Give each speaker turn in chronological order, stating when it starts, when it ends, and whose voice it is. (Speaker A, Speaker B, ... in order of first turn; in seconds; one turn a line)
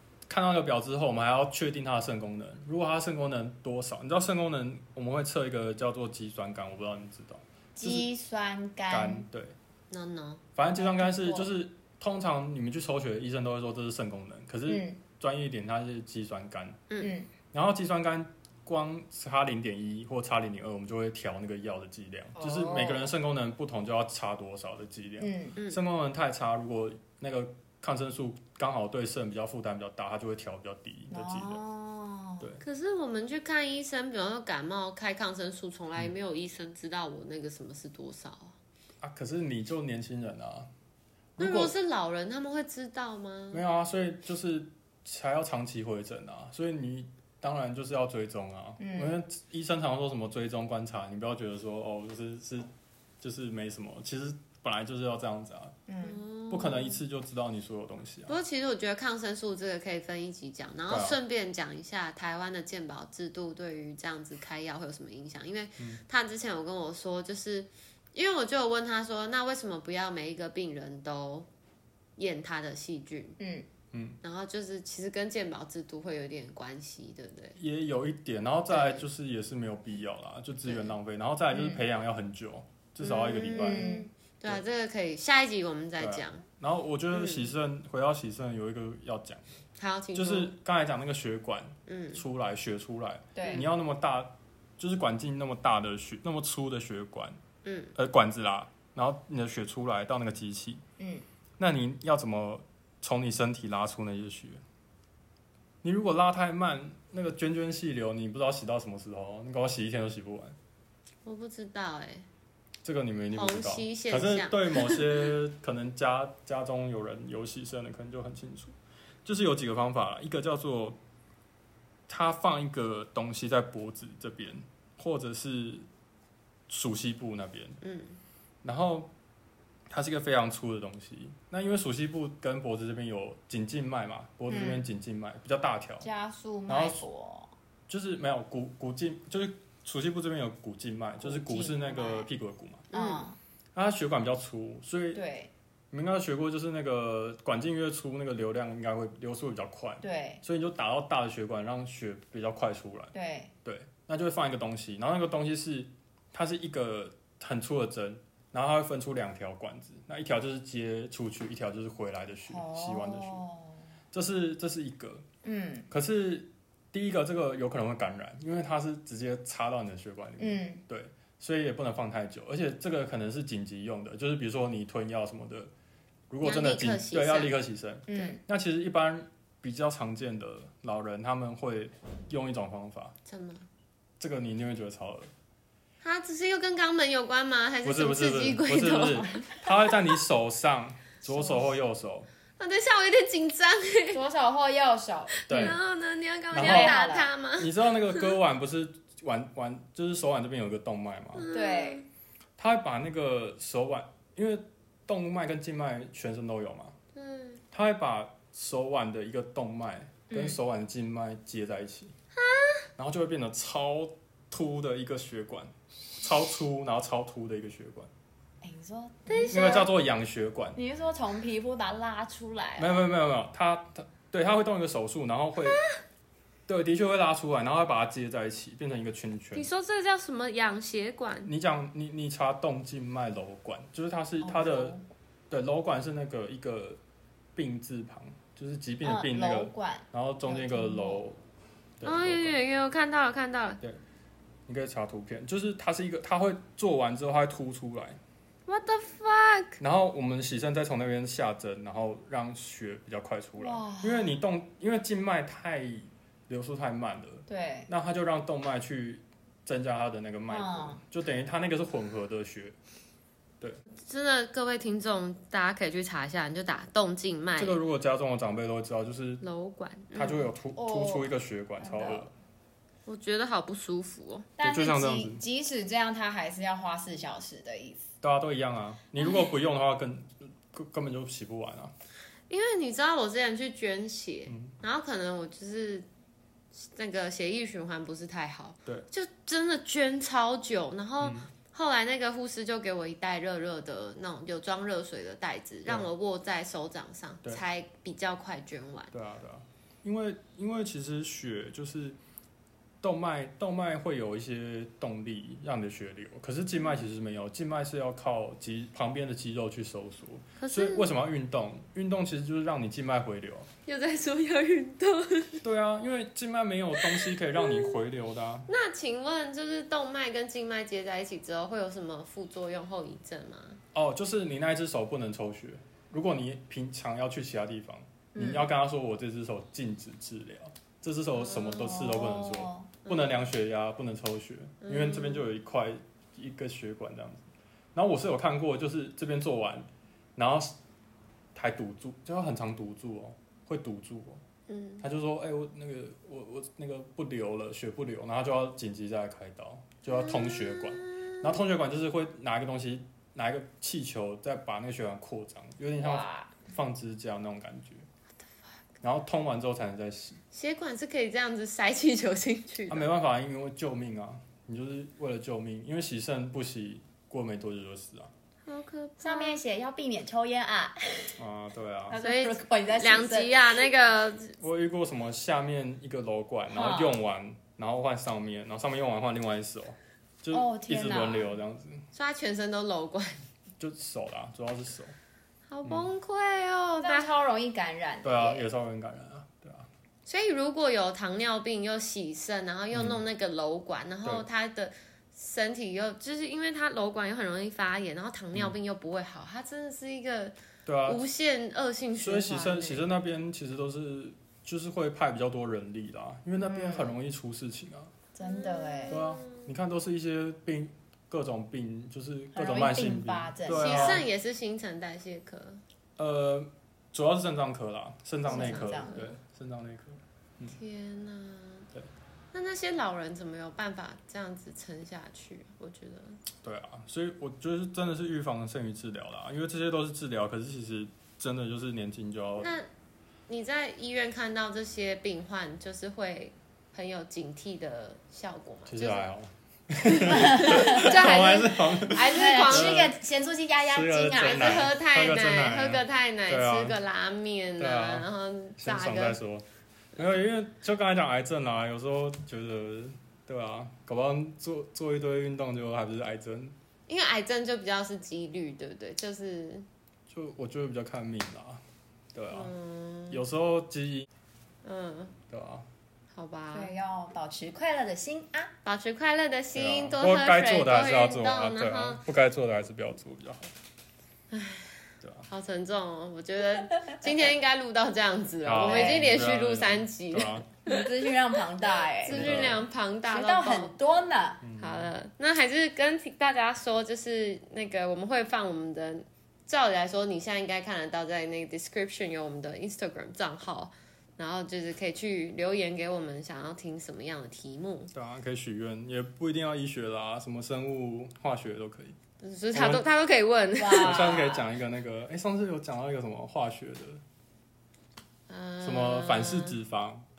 Speaker A: 0.3-8.1
Speaker B: 7.8-9.3
Speaker A: 8.9-9.6
Speaker C: 9.9-10.4
Speaker A: 10.6-16.8
Speaker B: 10.8-11.5
Speaker B: 14.7-15.0
Speaker B: 17.0-17.3
Speaker A: 17.5-31.6
Speaker B: 22.4-23.1
Speaker B: 25.2-25.6
Speaker B: 31.1-32.5
Speaker C: 32.6-38.5
Speaker A: 39.0-40.7
Speaker A: 41.4-41.7
Speaker C: 41.4-43.6
Speaker A: 43.5-52.7
Speaker B: 48.8-49.2
Speaker A: 53.2-55.8
Speaker B: 55.9-56.2
Speaker C: 56.0-57.0
Speaker A: 56.5-58.4
Speaker C: 58.3-71.5
Speaker A: 60.9-61.2
Speaker C: 72.2-73.4
Speaker B: 73.4-73.7
Speaker A: 73.9-74.2
Speaker C: 74.2-77.6
Speaker A: 77.6-84.6
Speaker B: 78.7-79.0
Speaker C: 80.7-80.9
Speaker B: 81.5-81.8
Speaker C: 83.0-86.4
Speaker B: 83.5-84.1
Speaker A: 86.0-89.6
Speaker C: 87.1-87.5
Speaker C: 89.8-90.5
Speaker A: 90.2-97.4
Speaker C: 91.9-92.2
Speaker B: 93.4-93.7
Speaker C: 97.6-97.9
Speaker A: 98.0-100.8
Speaker B: 101.0-101.2
Speaker A: 101.6-104.6
Speaker A: 105.8-110.6
Speaker C: 111.2-112.3
Speaker A: 112.8-121.0
Speaker C: 113.3-115.3
Speaker A: 122.1-125.9
Speaker A: 126.7-127.8
Speaker C: 127.8-128.2
Speaker A: 128.6-129.1
Speaker A: 129.9-136.1
Speaker B: 134.5-134.9
Speaker B: 136.0-137.5
Speaker A: 136.7-137.0
Speaker A: 137.9-142.9
Speaker B: 141.2-142.3
Speaker C: 142.9-143.2
Speaker B: 142.9-143.4
Speaker A: 143.8-145.2
Speaker B: 145.1-145.5
Speaker A: 145.9-153.1
Speaker B: 150.0-150.4
Speaker B: 153.1-153.5
Speaker A: 153.7-163.4
Speaker B: 162.5-163.8
Speaker A: 164.1-165.2
Speaker B: 165.4-165.9
Speaker A: 165.9-175.7
Speaker B: 170.4-170.8
Speaker A: 176.3-183.2
Speaker C: 176.4-177.5
Speaker B: 178.1-178.4
Speaker C: 183.3-183.7
Speaker A: 184.2-185.3
Speaker C: 186.0-189.6
Speaker A: 187.8-192.3
Speaker B: 191.3-191.7
Speaker C: 192.6-194.2
Speaker B: 194.1-195.8
Speaker C: 195.4-198.3
Speaker A: 195.5-195.8
Speaker A: 196.5-197.0
Speaker B: 196.6-197.3
Speaker A: 197.6-201.5
Speaker C: 201.4-202.1
Speaker B: 201.5-202.0
Speaker A: 202.6-206.9
Speaker C: 207.2-207.6
Speaker A: 207.7-212.1
Speaker B: 210.3-210.6
Speaker C: 212.4-212.9
Speaker A: 213.0-218.1
Speaker B: 218.6-219.8
Speaker C: 219.3-219.9
Speaker A: 219.5-220.8
Speaker B: 220.8-223.1
Speaker A: 222.8-225.8
Speaker A: 226.7-229.7
Speaker C: 229.5-231.5
Speaker A: 231.4-235.0
Speaker B: 234.4-235.0
Speaker A: 235.5-237.0
Speaker A: 237.6-241.4
Speaker B: 239.0-241.2
Speaker A: 242.0-242.6
Speaker C: 242.0-243.8
Speaker A: 244.7-248.2
Speaker C: 248.7-249.8
Speaker A: 249.8-262.8
Speaker B: 253.6-254.3
Speaker B: 257.5-257.9
Speaker B: 260.5-261.0
Speaker C: 264.1-267.8
Speaker A: 267.6-269.4
Speaker C: 269.4-270.5
Speaker A: 270.1-272.3
Speaker B: 270.7-272.3
Speaker C: 273.1-274.5
Speaker B: 274.6-278.1
Speaker A: 274.6-275.4
Speaker A: 278.2-281.9
Speaker C: 282.5-286.1
Speaker A: 284.5-284.8
Speaker C: 286.8-299.1
Speaker A: 291.2-291.5
Speaker A: 299.1-302.2
Speaker A: 303.0-313.7
Speaker C: 310.6-311.1
Speaker C: 313.9-315.6
Speaker A: 315.6-318.7
Speaker C: 317.0-317.9
Speaker C: 318.7-323.8
Speaker A: 323.9-340.8
Speaker B: 328.4-328.7
Speaker C: 331.4-331.8
Speaker B: 331.6-332.9
Speaker C: 333.1-333.4
Speaker C: 334.8-335.5
Speaker A: 341.6-344.4
Speaker C: 344.7-345.0
Speaker A: 345.0-358.1
Speaker C: 350.1-351.4
Speaker B: 356.0-356.5
Speaker A: 359.0-360.4
Speaker C: 360.5-363.1
Speaker A: 362.9-368.3
Speaker C: 368.7-369.6
Speaker B: 369.2-371.4
Speaker A: 371.4-372.2
Speaker B: 372.1-373.6
Speaker C: 372.2-374.6
Speaker A: 374.6-382.1
Speaker B: 376.7-377.2
Speaker B: 380.5-381.6
Speaker C: 382.1-383.5
Speaker A: 383.8-385.1
Speaker C: 385.7-387.3
Speaker A: 385.8-386.1
Speaker B: 387.0-388.6
Speaker A: 388.2-389.9
Speaker C: 390.3-403.1
Speaker A: 392.9-393.2
Speaker A: 400.9-401.2
Speaker A: 402.2-408.1
Speaker B: 406.6-407.1
Speaker B: 408.3-409.2
Speaker C: 408.4-409.7
Speaker A: 409.1-414.3
Speaker B: 412.5-414.2
Speaker C: 413.7-415.8
Speaker A: 416.2-420.8
Speaker B: 418.4-419.2
Speaker C: 418.5-419.4
Speaker C: 420.7-421.9
Speaker C: 422.5-426.4
Speaker A: 426.6-432.7
Speaker C: 432.6-432.9
Speaker C: 433.5-439.2
Speaker A: 438.9-443.2
Speaker C: 440.1-443.1
Speaker B: 440.2-444.9
Speaker A: 443.8-447.0
Speaker C: 444.3-449.4
Speaker A: 447.8-449.6
Speaker A: 450.2-456.8
Speaker C: 457.1-459.9
Speaker A: 460.3-461.8
Speaker A: 462.3-462.7
Speaker C: 462.5-463.4
Speaker A: 463.3-464.3
Speaker C: 464.8-465.4
Speaker A: 465.5-465.9
Speaker C: 466.3-466.9
Speaker B: 466.7-468.7
Speaker C: 468.9-472.2
Speaker A: 469.7-473.6
Speaker C: 474.5-481.1
Speaker A: 475.2-475.5
Speaker A: 478.6-480.7
Speaker B: 478.9-479.3
Speaker B: 480.9-484.6
Speaker C: 482.2-483.9
Speaker A: 482.3-482.8
Speaker A: 484.6-485.2
Speaker C: 484.8-498.1
Speaker A: 498.1-502.2
Speaker C: 502.4-504.5
Speaker A: 502.7-503.1
Speaker B: 503.8-504.7
Speaker A: 503.9-507.2
Speaker C: 508.5-509.8
Speaker A: 508.8-510.2